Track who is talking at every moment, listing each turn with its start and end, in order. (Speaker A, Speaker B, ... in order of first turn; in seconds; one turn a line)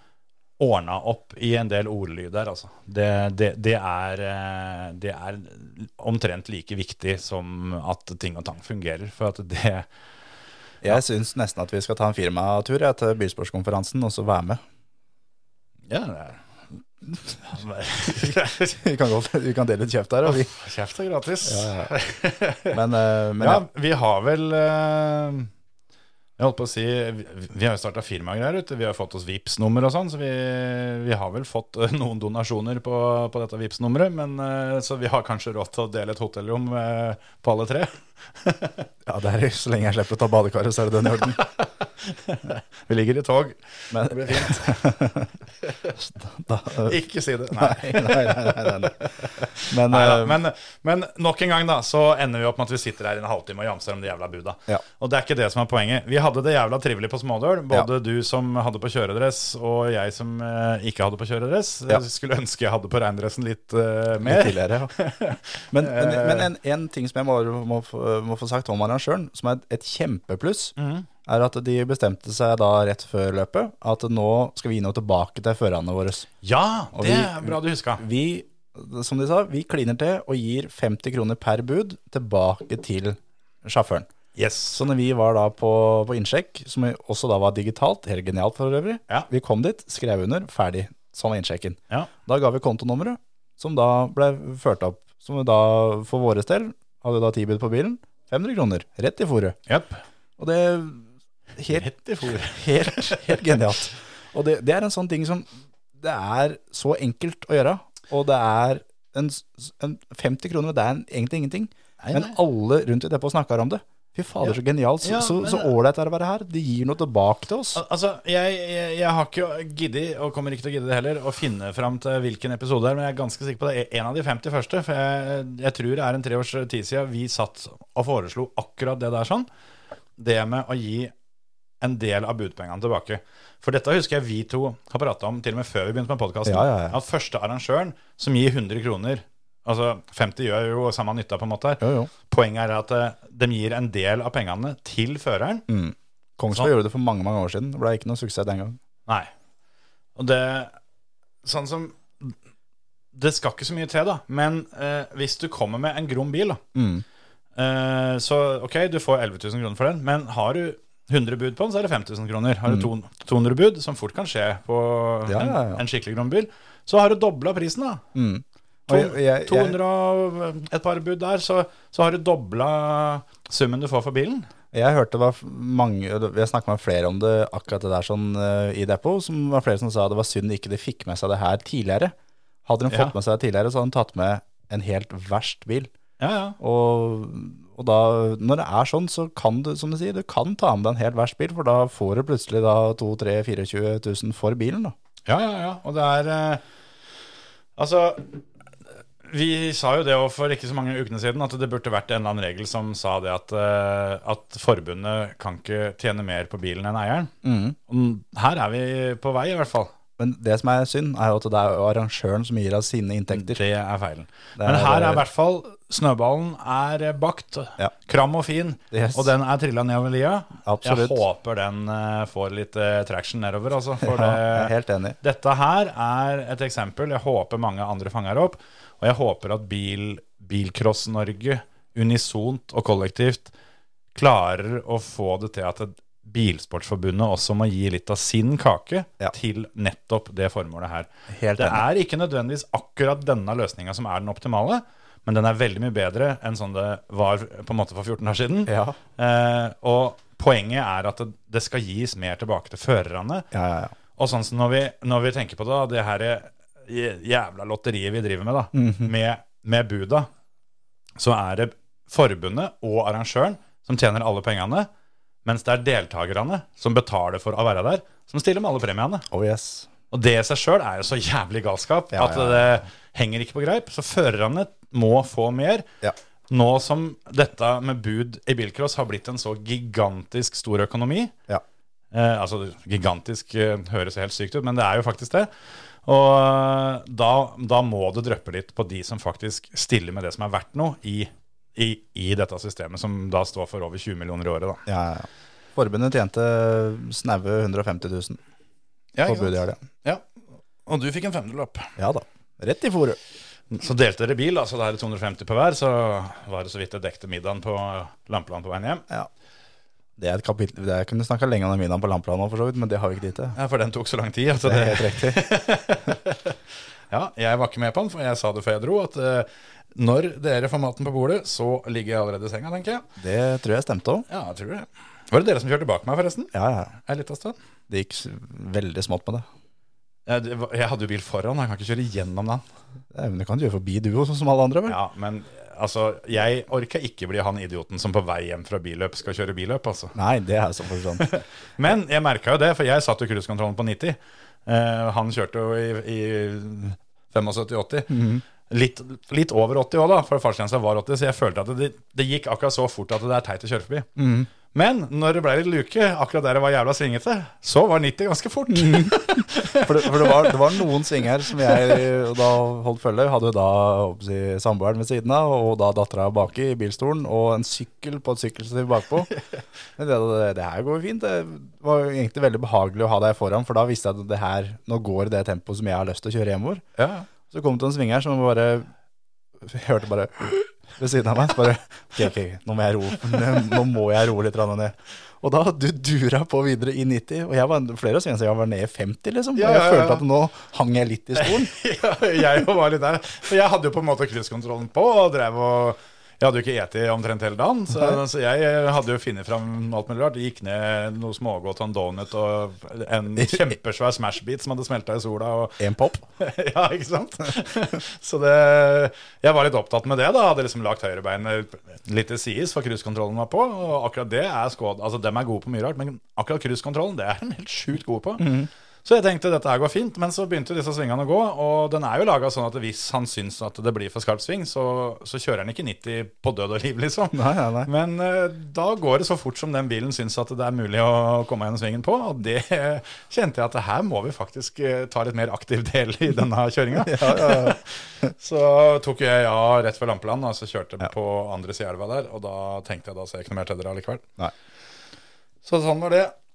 Speaker A: 0.6-9.9
Speaker B: 10.8-14.6
Speaker A: 15.9-16.4
Speaker A: 17.3-18.8
Speaker B: 18.2-20.5
Speaker A: 20.2-22.8
Speaker B: 21.4-21.9
Speaker B: 22.7-23.6
Speaker A: 23.4-25.5
Speaker A: 26.4-38.9
Speaker B: 39.1-41.4
Speaker A: 41.4-44.8
Speaker B: 43.9-45.3
Speaker A: 45.6-45.9
Speaker B: 46.0-47.0
Speaker A: 46.8-66.5
Speaker B: 47.6-49.1
Speaker B: 49.6-50.4
Speaker B: 64.2-64.9
Speaker B: 65.7-70.7
Speaker A: 70.8-71.1
Speaker B: 71.3-76.3
Speaker A: 76.4-78.0
Speaker B: 76.9-84.1
Speaker A: 84.4-84.8
Speaker B: 84.7-99.6
Speaker A: 99.7-100.0
Speaker B: 100.4-117.8
Speaker A: 101.7-103.6
Speaker A: 112.0-112.4
Speaker A: 114.4-115.7
Speaker A: 117.7-129.5
Speaker A: 130.2-131.1
Speaker A: 131.8-145.7
Speaker B: 136.5-137.0
Speaker B: 141.8-142.1
Speaker B: 145.7-148.8
Speaker A: 150.2-150.7
Speaker A: 151.4-152.4
Speaker A: 153.1-156.6
Speaker B: 156.8-157.1
Speaker A: 157.6-168.0
Speaker B: 165.3-165.8
Speaker B: 168.2-169.8
Speaker A: 168.9-174.5
Speaker B: 174.7-182.1
Speaker B: 182.7-185.9
Speaker A: 182.9-183.1
Speaker A: 186.2-186.6
Speaker B: 186.6-194.9
Speaker A: 195.3-196.6
Speaker A: 197.8-198.4
Speaker A: 199.2-207.3
Speaker B: 207.4-207.8
Speaker A: 207.9-209.9
Speaker B: 210.2-213.6
Speaker A: 213.3-233.5
Speaker B: 214.6-215.2
Speaker B: 218.9-219.3
Speaker B: 220.6-221.2
Speaker B: 224.0-225.2
Speaker A: 234.2-253.5
Speaker B: 241.3-241.8
Speaker B: 248.7-249.0
Speaker B: 253.5-253.9
Speaker A: 254.2-260.3
Speaker B: 258.7-259.1
Speaker A: 261.2-264.9
Speaker A: 265.4-269.3
Speaker B: 269.3-269.9
Speaker A: 270.1-275.9
Speaker B: 272.1-272.7
Speaker A: 276.5-281.3
Speaker A: 282.1-285.5
Speaker A: 286.1-294.8
Speaker B: 294.9-298.4
Speaker A: 299.1-300.2
Speaker B: 299.2-299.8
Speaker A: 300.9-301.9
Speaker B: 302.0-303.2
Speaker A: 303.7-309.1
Speaker B: 310.2-313.6
Speaker A: 313.6-316.6
Speaker B: 314.6-315.4
Speaker A: 317.1-323.1
Speaker B: 323.2-324.3
Speaker A: 324.3-327.6
Speaker B: 326.5-326.9
Speaker B: 327.9-329.4
Speaker A: 330.3-332.6
Speaker B: 333.1-335.0
Speaker A: 334.9-340.1
Speaker B: 340.1-341.3
Speaker A: 341.2-354.1
Speaker B: 348.1-348.4
Speaker B: 354.2-354.5
Speaker A: 354.7-360.9
Speaker B: 358.7-369.3
Speaker A: 361.6-362.0
Speaker B: 370.0-376.9
Speaker A: 377.0-377.3
Speaker B: 377.4-378.9
Speaker B: 379.6-391.7
Speaker A: 389.6-390.2
Speaker A: 391.4-405.8
Speaker B: 403.4-403.7
Speaker B: 405.8-406.2
Speaker A: 406.4-418.5
Speaker B: 418.4-418.7
Speaker A: 419.1-444.2
Speaker B: 427.3-427.9
Speaker B: 437.0-438.3
Speaker A: 445.6-446.3